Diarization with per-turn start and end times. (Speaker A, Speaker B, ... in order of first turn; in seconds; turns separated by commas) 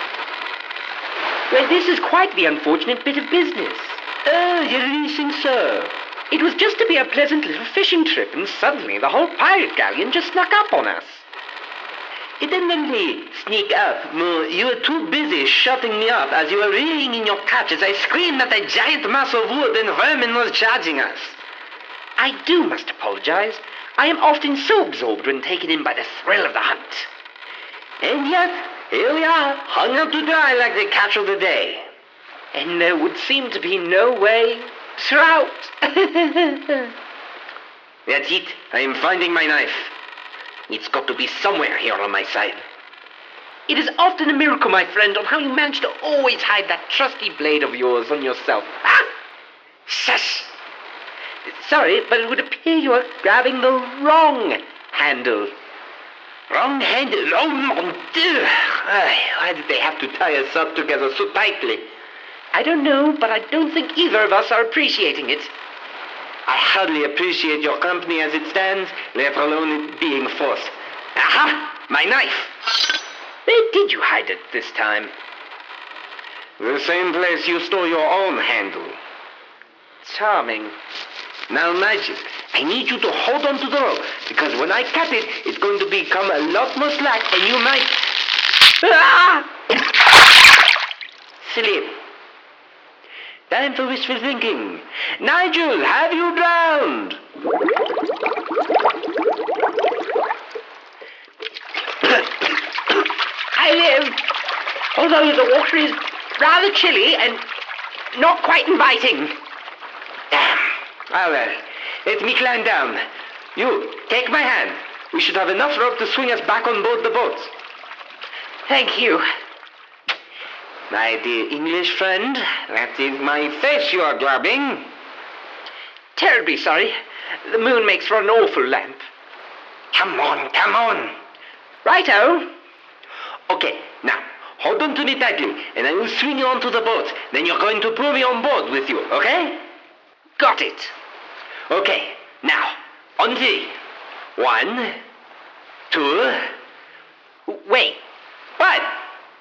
Speaker A: 1.5-4.0, Speaker B: 4.2-5.9, Speaker A: 6.3-11.2, Speaker B: 12.4-21.4, Speaker A: 22.2-27.1, Speaker B: 28.0-31.9, Speaker A: 32.5-36.9, Speaker B: 38.0-39.9, Speaker B: 40.7-42.6, Speaker A: 43.7-49.1, Speaker A: 49.9-50.4, Speaker A: 51.5-55.5, Speaker B: 56.5-61.9, Speaker A: 62.5-65.5, Speaker B: 66.5-72.5, Speaker A: 73.5-75.1, Speaker B: 76.6-79.0, Speaker A: 80.0-80.8, Speaker B: 81.5-88.1, Speaker A: 88.8-89.4, Speaker B: 91.4-92.0, Speaker B: 93.5-97.2, Speaker A: 102.0-102.4, Speaker A: 103.5-104.2, Speaker A: 104.9-107.4, Speaker A: 108.1-109.3, Speaker B: 110.3-113.0, Speaker B: 113.5-117.5, Speaker A: 118.7-119.2, Speaker B: 120.9-124.9, Speaker A: 126.2-129.0, Speaker B: 129.9-131.1, Speaker A: 131.8-132.5, Speaker B: 133.5-139.6, Speaker A: 140.4-140.9, Speaker B: 141.7-143.8, Speaker B: 144.3-145.0, Speaker B: 145.9-146.4, Speaker A: 147.5-148.0, Speaker A: 148.6-148.9